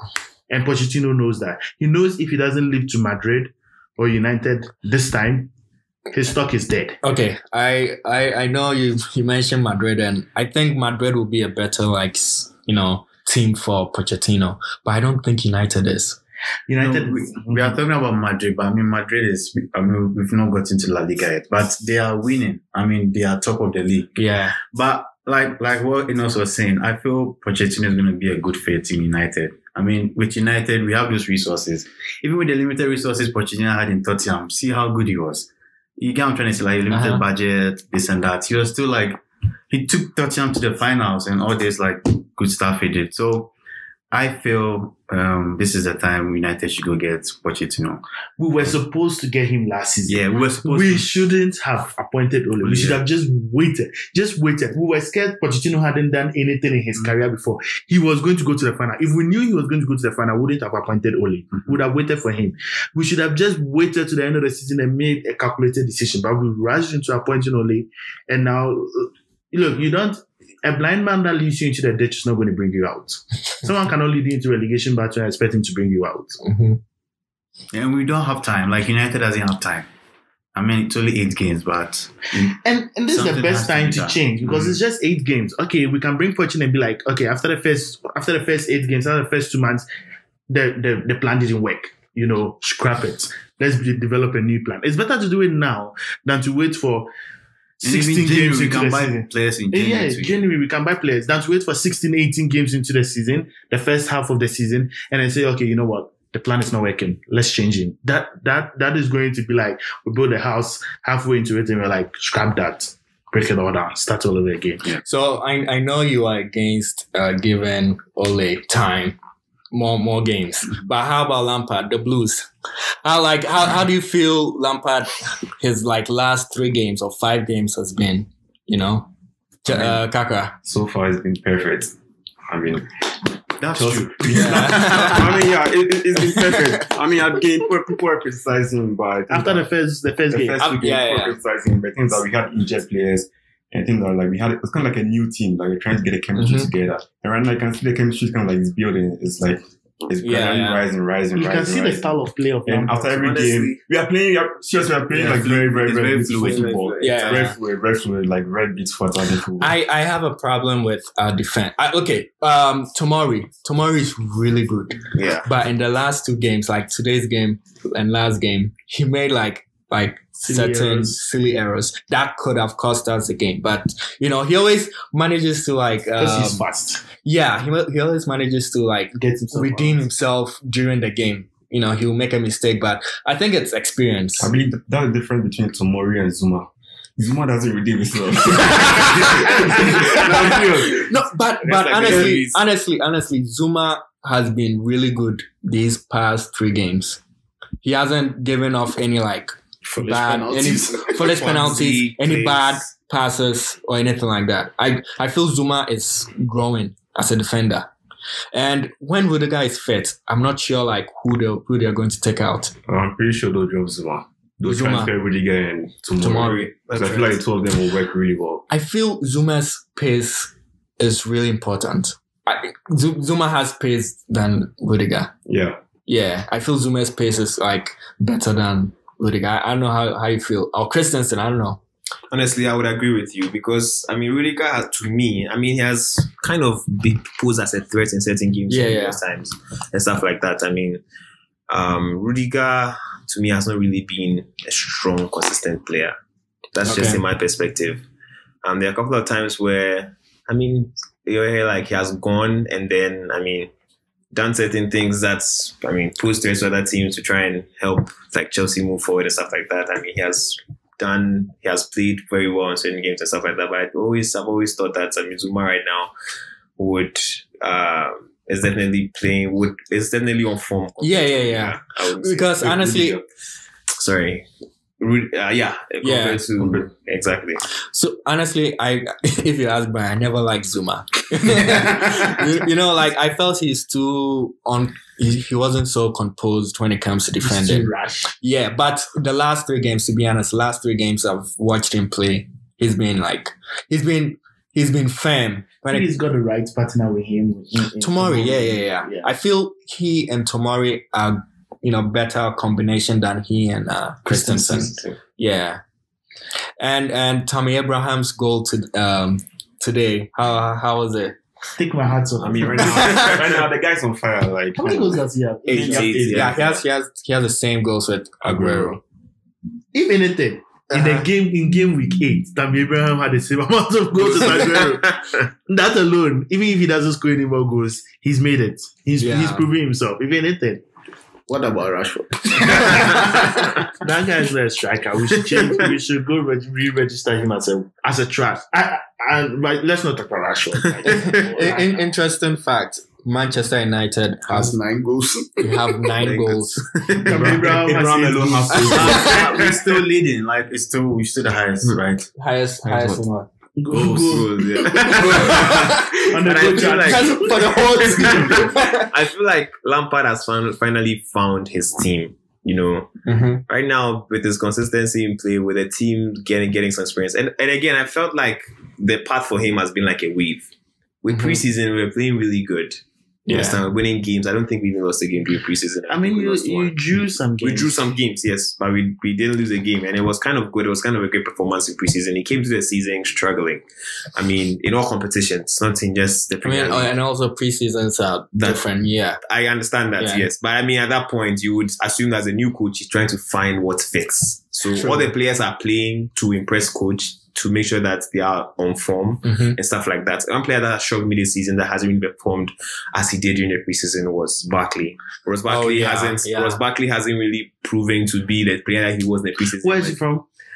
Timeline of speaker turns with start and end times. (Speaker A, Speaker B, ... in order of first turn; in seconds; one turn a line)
Speaker A: 0.5-5.5
Speaker A: 6.1-7.0
Speaker B: 7.0-16.2
Speaker A: 16.7-17.8
Speaker C: 16.8-43.5
Speaker B: 24.1-24.6
Speaker B: 36.9-37.2
Speaker C: 44.1-48.0
Speaker A: 48.4-76.4
Speaker C: 50.1-51.1
Speaker C: 52.6-53.0
Speaker B: 76.4-76.8
Speaker C: 77.7-79.9
Speaker C: 80.5-82.5
Speaker A: 82.5-89.8
Speaker C: 83.1-84.8
Speaker A: 90.5-97.1
Speaker C: 97.8-100.4
Speaker A: 97.8-114.9
Speaker B: 115.0-119.2
Speaker B: 119.7-122.5
Speaker B: 123.0-129.1
Speaker B: 129.6-130.6
Speaker D: 130.6-131.9
Speaker D: 132.5-132.9
Speaker C: 133.6-135.0
Speaker D: 133.7-139.7
Speaker B: 134.3-135.3
Speaker A: 139.3-140.6
Speaker D: 140.3-152.1
Speaker B: 140.6-141.3
Speaker B: 146.3-146.7
Speaker B: 150.2-150.8
Speaker A: 151.3-153.5
Speaker D: 152.7-159.8
Speaker E: 153.2-153.8
Speaker C: 155.1-156.9
Speaker E: 156.4-157.5
Speaker B: 157.0-157.6
Speaker B: 159.6-176.6
Speaker E: 165.1-165.5
Speaker A: 170.4-171.2
Speaker A: 176.2-177.0
Speaker B: 177.2-184.5
Speaker A: 179.1-180.0
Speaker D: 184.4-191.1
Speaker B: 188.8-197.2
Speaker E: 191.6-192.6
Speaker D: 192.0-192.4
Speaker B: 197.8-207.9
Speaker F: 199.8-201.6
Speaker E: 201.2-202.8
Speaker B: 208.5-212.7
Speaker D: 212.9-218.7
Speaker B: 214.6-215.1
Speaker B: 216.2-216.7
Speaker E: 216.9-217.4
Speaker B: 218.7-225.3
Speaker D: 225.4-225.8
Speaker B: 226.1-231.8
Speaker E: 232.3-241.0
Speaker B: 238.7-239.2
Speaker E: 241.7-246.1
Speaker E: 246.7-248.0
Speaker B: 246.8-247.2
Speaker E: 248.6-253.7
Speaker E: 254.3-266.1
Speaker E: 266.8-272.7
Speaker B: 271.0-273.2
Speaker E: 274.0-274.4
Speaker E: 275.0-277.6
Speaker B: 276.0-276.4
Speaker B: 277.9-296.1
Speaker A: 287.4-288.3
Speaker A: 295.9-299.3
Speaker B: 298.0-305.8
Speaker B: 306.8-311.4
Speaker A: 311.8-313.2
Speaker D: 312.4-315.2
Speaker B: 312.9-313.3
Speaker E: 313.1-313.4
Speaker A: 314.8-316.6
Speaker E: 315.7-316.8
Speaker B: 316.2-319.0
Speaker D: 318.4-318.9
Speaker A: 319.9-330.8
Speaker B: 320.9-321.3
Speaker F: 324.2-324.6
Speaker B: 329.2-329.7
Speaker F: 331.5-333.3
Speaker A: 332.6-342.0
Speaker E: 341.0-341.4
Speaker B: 341.1-344.8
Speaker F: 344.5-346.1
Speaker B: 345.6-346.9
Speaker E: 346.2-347.6
Speaker A: 347.2-349.7
Speaker C: 347.3-352.3
Speaker D: 347.9-349.3
Speaker B: 348.9-349.4
Speaker B: 352.4-353.5
Speaker D: 352.8-353.2
Speaker A: 353.8-358.7
Speaker C: 353.9-354.4
Speaker E: 353.9-363.1
Speaker B: 355.5-356.0
Speaker B: 357.0-359.1
Speaker B: 363.2-363.6
Speaker E: 363.7-370.7
Speaker E: 371.2-377.0
Speaker B: 371.3-371.6
Speaker B: 373.5-373.8
Speaker A: 376.1-378.0
Speaker E: 377.6-387.1
Speaker B: 386.6-389.4
Speaker E: 388.6-388.8
Speaker E: 389.4-410.2
Speaker B: 390.2-390.4
Speaker B: 394.9-395.3
Speaker B: 399.4-399.8
Speaker B: 405.6-406.8
Speaker A: 409.8-410.4